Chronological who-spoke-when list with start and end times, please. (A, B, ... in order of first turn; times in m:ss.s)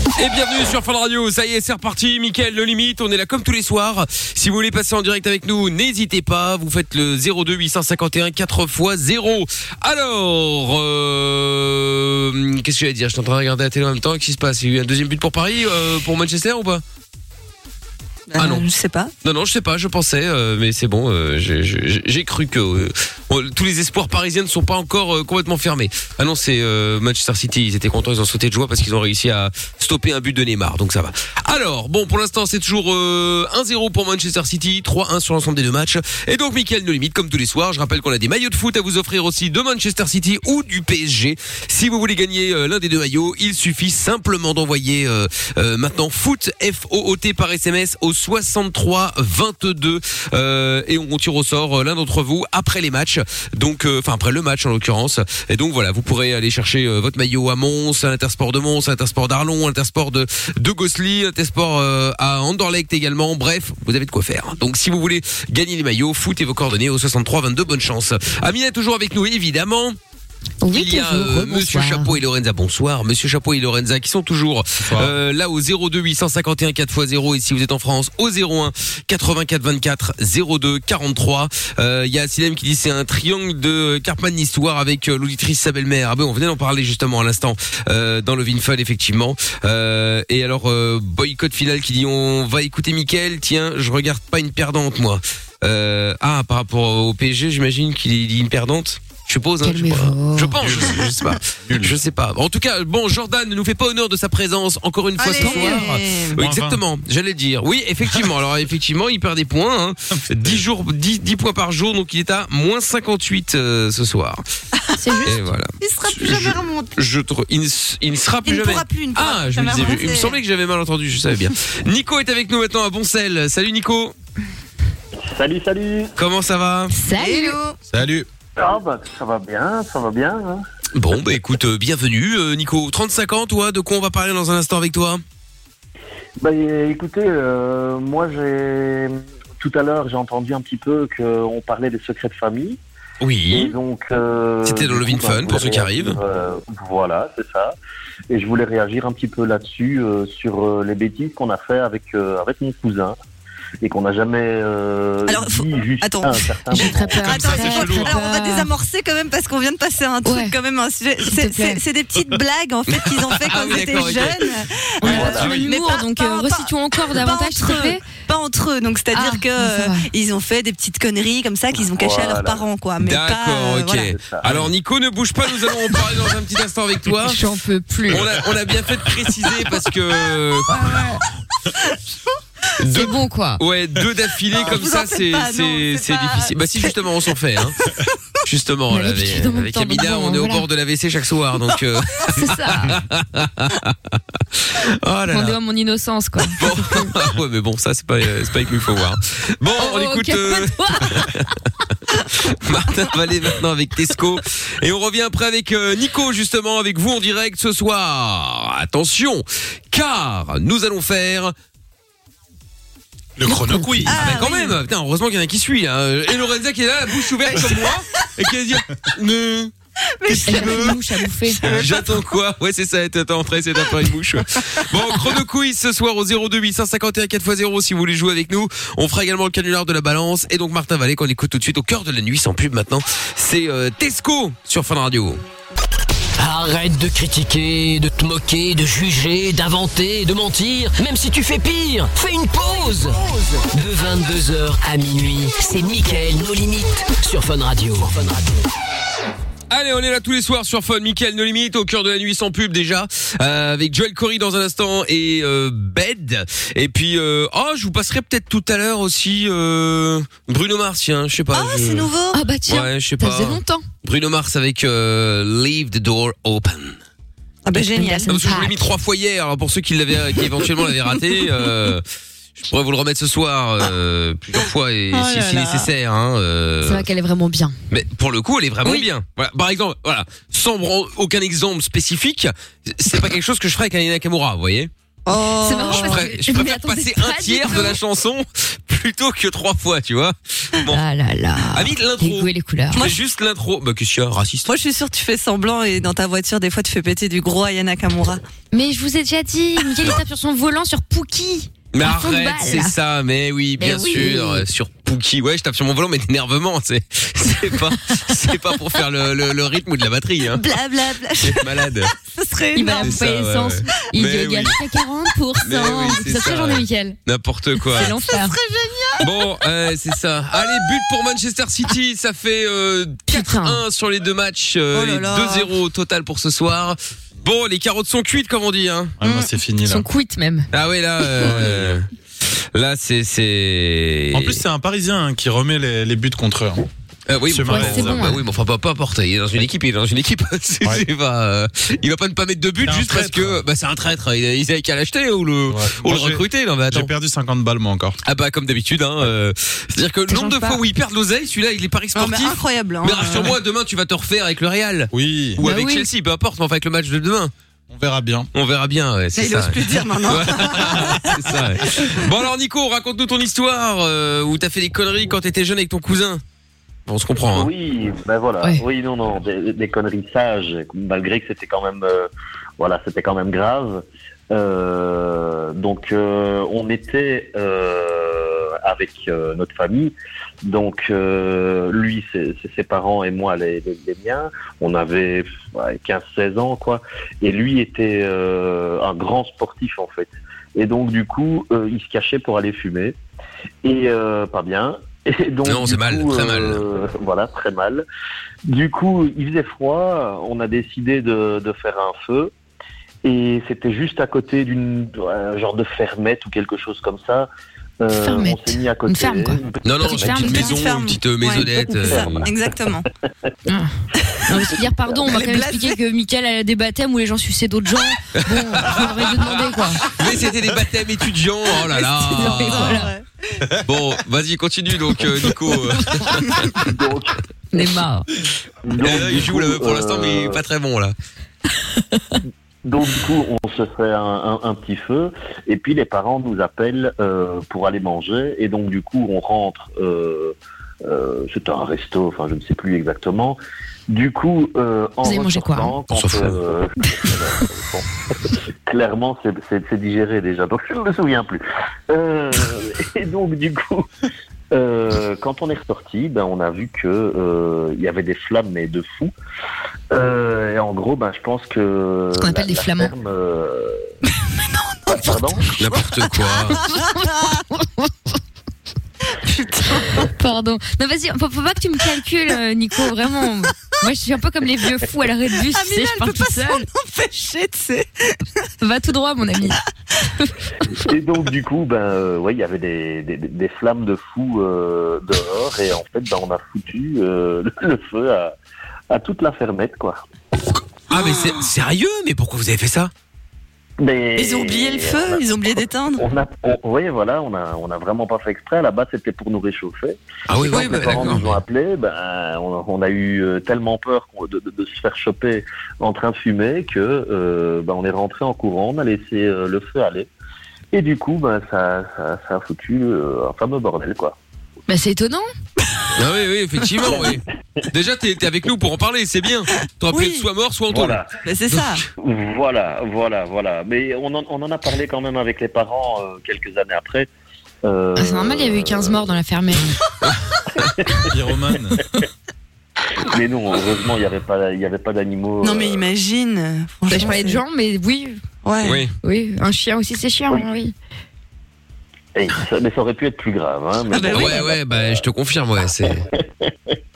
0:00.2-0:16.8 A
0:18.3-0:19.1 B
0:18.4-0:18.7 A
0:19.2-1:10.0 A
1:10.6-1:12.2 C
1:10.7-1:54.4 A
1:14.8-1:15.1 D
1:39.6-1:40.6 C
1:40.6-1:42.0 D
1:45.2-1:46.4 B
1:45.4-1:45.9 C
1:46.4-1:46.8 D
1:54.8-1:56.9 B
1:55.0-1:55.4 C
1:55.2-2:04.1 A
1:58.4-2:00.4 B
2:05.2-2:06.1 E
2:06.2-2:06.9 A
2:06.9-2:07.6 C
2:07.2-2:07.8 B
2:07.9-2:08.3 D
2:08.6-2:10.6 E
2:11.0-2:15.2 A
2:16.4-2:22.8 E
2:23.2-2:23.8 A
2:23.5-2:27.8 E
2:24.6-2:26.2 A
2:28.3-2:33.2 E
2:33.8-2:37.4 E
2:35.3-2:36.5 B
2:36.7-2:38.7 C
2:37.2-2:54.2 B
2:37.3-2:38.2 D
2:40.2-2:40.6 C
2:41.3-2:41.8 C
2:43.4-2:44.5 A
2:45.0-2:48.0 C
2:45.0-2:45.5 E
2:45.1-2:45.7 A
2:49.1-2:50.1 C
2:51.7-2:52.6 E
2:53.0-2:57.4 A
2:54.1-2:54.7 E
2:57.2-2:58.2 C
2:58.1-3:01.0 A
3:00.7-3:01.2 C
3:02.8-3:07.8 A
3:02.8-3:03.6 C
3:04.5-3:07.3 B
3:07.8-3:08.1 B
3:08.4-3:15.6 A
3:08.9-3:10.7 C
3:12.3-3:13.0 C
3:15.3-3:17.1 C
3:16.6-3:21.5 A
3:19.8-3:21.5 C
3:22.1-3:31.5 A
3:33.4-3:34.2 D
3:33.5-3:34.2 C
3:34.1-3:34.8 B
3:34.2-3:39.0 A
3:37.5-3:37.8 B
3:39.0-3:39.7 D
3:40.2-3:41.0 B
3:40.3-3:41.0 D
3:40.4-3:41.6 C
3:41.6-3:55.4 A
3:41.7-3:42.2 B
3:41.7-3:42.0 D
3:56.4-4:08.6 F
4:09.7-4:22.1 A
4:21.5-4:22.4 B
4:22.3-4:23.8 C
4:22.7-4:27.0 A
4:27.6-4:28.3 B
4:27.7-4:28.9 C
4:28.3-4:32.0 A
4:32.6-4:37.1 A
4:35.1-4:35.9 B
4:36.8-4:37.8 C
4:37.9-4:44.9 A
4:45.3-4:46.6 B
4:45.6-4:48.0 C
4:45.9-4:51.0 A
4:50.9-4:53.1 C
4:51.7-4:54.7 A
4:52.9-4:53.2 B
4:54.7-4:58.4 B
4:58.7-5:03.0 C
5:01.9-5:10.6 A
5:03.8-5:04.6 C
5:10.5-5:13.3 B
5:11.4-5:12.2 A
5:12.8-5:17.2 C
5:13.0-5:14.8 A
5:15.6-5:18.1 A
5:18.0-5:18.6 C
5:18.1-5:19.3 B
5:19.2-5:29.2 A
5:20.6-5:20.9 B
5:23.3-5:23.8 C
5:24.9-5:25.7 B
5:29.2-5:30.1 D
5:29.8-5:30.7 C
5:30.7-5:32.1 A
5:31.4-5:32.0 D
5:32.7-5:34.6 A
5:34.3-5:36.9 D
5:37.3-5:47.1 A
5:37.5-5:38.3 D
5:37.7-5:38.4 C
5:42.8-5:43.6 D
5:45.7-5:48.2 D
5:48.2-5:57.5 A
5:50.3-5:50.8 C
5:52.2-5:53.6 B
5:55.1-5:55.6 D
5:55.6-5:56.1 C
5:57.9-5:58.5 D
5:58.5-6:06.4 A
5:59.3-6:01.4 B
6:07.1-6:07.7 A
6:07.5-6:33.2 E
6:33.8-6:38.0 E
6:35.6-6:36.8 A
6:38.7-6:42.5 E
6:43.2-6:47.5 E
6:48.0-6:50.7 E
6:48.1-6:50.7 C
6:49.8-6:52.5 A
6:50.3-6:53.0 B
6:51.5-6:52.5 E
6:54.5-7:00.0 C
6:55.2-6:56.0 B
6:58.4-7:03.1 A
7:01.8-7:03.6 B
7:02.3-7:03.1 C
7:03.9-7:06.7 A
7:06.8-7:07.4 E
7:07.7-7:08.3 C
7:08.8-7:10.6 E
7:09.0-7:11.1 A
7:12.8-7:28.1 E
7:25.2-7:26.0 C
7:26.1-7:26.6 A
7:28.9-7:34.1 E
7:34.7-7:39.3 E
7:40.1-7:44.1 E
7:42.4-7:43.1 C
7:44.4-7:45.3 B
7:45.1-7:45.8 E
7:45.8-7:46.8 A
7:45.8-7:47.6 B
7:46.8-7:48.1 C
7:49.3-7:50.3 B
7:50.0-7:56.9 C
7:55.7-7:58.4 B
7:58.8-7:59.8 C
8:01.0-8:08.6 E
8:09.1-8:10.2 E
8:11.1-8:13.1 A
8:14.0-8:30.3 E
8:14.4-8:16.2 B
8:20.5-8:21.6 A
8:20.7-8:21.4 B
8:30.9-8:34.4 E
8:34.9-8:35.5 C
8:36.2-8:42.0 A
8:37.0-8:37.4 E
8:40.1-8:40.5 B
8:40.9-8:41.3 E
8:41.4-8:42.0 B
8:42.2-8:47.3 E
8:47.8-8:49.4 E
8:48.2-8:50.0 C
8:50.2-8:50.9 A
8:51.3-8:52.0 D
8:53.2-8:56.1 E
8:55.6-8:57.6 B
8:57.1-8:58.4 C
8:58.6-8:59.0 B
8:58.8-8:59.1 A
8:59.2-9:00.9 C
9:02.4-9:05.3 E
9:04.1-9:04.7 B
9:04.2-9:06.2 A
9:06.0-9:06.9 E